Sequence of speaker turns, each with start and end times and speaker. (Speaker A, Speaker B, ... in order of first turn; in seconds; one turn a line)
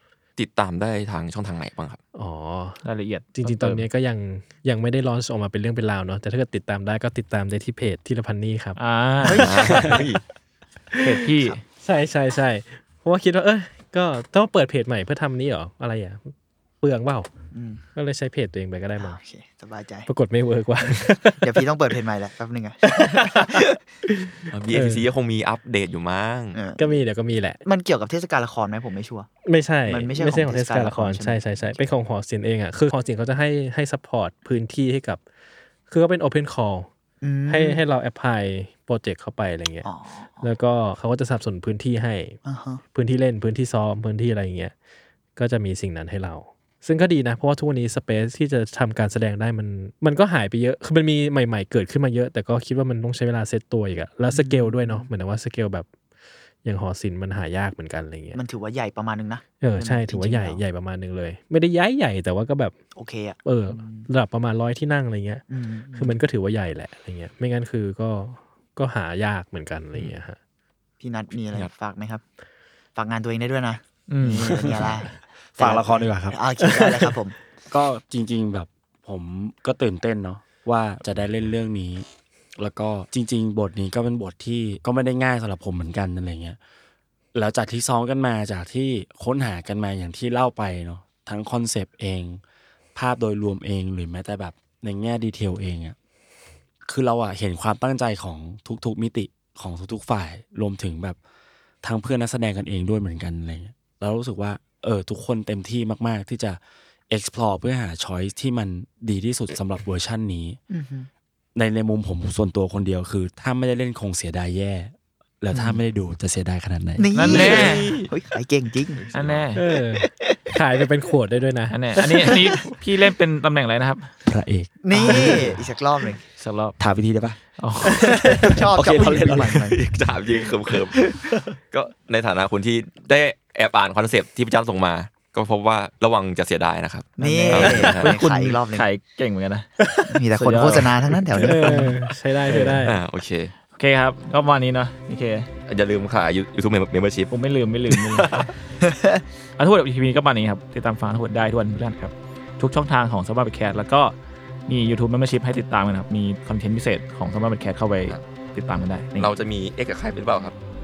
Speaker A: 0.4-2.0
Speaker B: 2.1-2.8
Speaker C: 2.8-3.9
Speaker B: 3.3-10.0
Speaker C: 8.8-9.5
Speaker D: 9.2-10.0
Speaker A: 9.4-10.2
Speaker B: 10.9-11.2
Speaker C: 11.0-11.6
Speaker B: 11.8-17.3
Speaker D: 17.5-17.8
Speaker B: 17.9-19.2
Speaker D: 19.0-20.1
Speaker B: 20.1-21.7
Speaker D: 20.8-23.6
Speaker B: 22.8-25.0
Speaker A: 24.5-26.6
Speaker D: 26.5-27.0
Speaker B: 26.8-27.6
Speaker D: 27.6-29.3
Speaker B: 29.4-35.2
Speaker D: 29.9-31.8
Speaker B: 35.9-36.9
Speaker D: 37.2-37.8
Speaker B: 37.5-39.9
Speaker D: 39.8-40.4
Speaker B: 40.4-42.4
Speaker D: 42.4-42.8
Speaker B: 42.9-44.7
Speaker B: 45.4-55.9
Speaker D: 54.3-55.1
Speaker B: 56.6-58.4
Speaker D: 58.3-60.6
Speaker B: 59.6-62.8
Speaker D: 62.9-64.1
Speaker B: 63.4-65.4
Speaker D: 65.5-66.2
Speaker B: 65.9-70.4
Speaker D: 71.0-72.2
Speaker D: 73.0-77.3
Speaker C: 74.1-74.7
Speaker E: 74.4-75.0
Speaker E: 75.5-76.3
Speaker B: 76.6-77.1
Speaker E: 77.7-82.0
Speaker E: 82.6-86.6
Speaker E: 87.3-92.4
Speaker E: 92.9-96.0
Speaker E: 96.8-101.2
Speaker E: 101.8-110.6
Speaker D: 110.7-111.1
Speaker E: 111.5-117.6
Speaker D: 115.5-115.8
Speaker D: 117.0-119.0
Speaker C: 117.1-118.1
Speaker A: 117.2-118.1
Speaker A: 118.9-119.5
Speaker C: 119.1-119.6
Speaker B: 119.5-121.8
Speaker D: 119.9-120.4
Speaker C: 121.7-124.1
Speaker D: 122.0-122.7
Speaker E: 124.2-125.6
Speaker D: 124.8-126.2
Speaker C: 125.0-125.5
Speaker C: 126.4-126.8
Speaker E: 126.8-127.4
Speaker C: 127.6-128.7
Speaker E: 127.9-129.8
Speaker D: 128.0-129.8
Speaker A: 129.0-131.0
Speaker E: 131.1-131.5
Speaker A: 131.7-138.1
Speaker D: 137.2-138.9
Speaker C: 137.2-139.7
Speaker B: 139.8-140.1
Speaker D: 140.1-141.9
Speaker C: 140.3-141.9
Speaker B: 141.4-143.0
Speaker C: 142.4-142.9
Speaker A: 142.8-143.5
Speaker C: 143.7-145.5
Speaker A: 145.7-147.3
Speaker C: 147.3-148.5
Speaker A: 147.9-148.5
Speaker D: 148.8-149.2
Speaker C: 149.6-154.1
Speaker C: 154.7-159.3
Speaker A: 159.2-160.5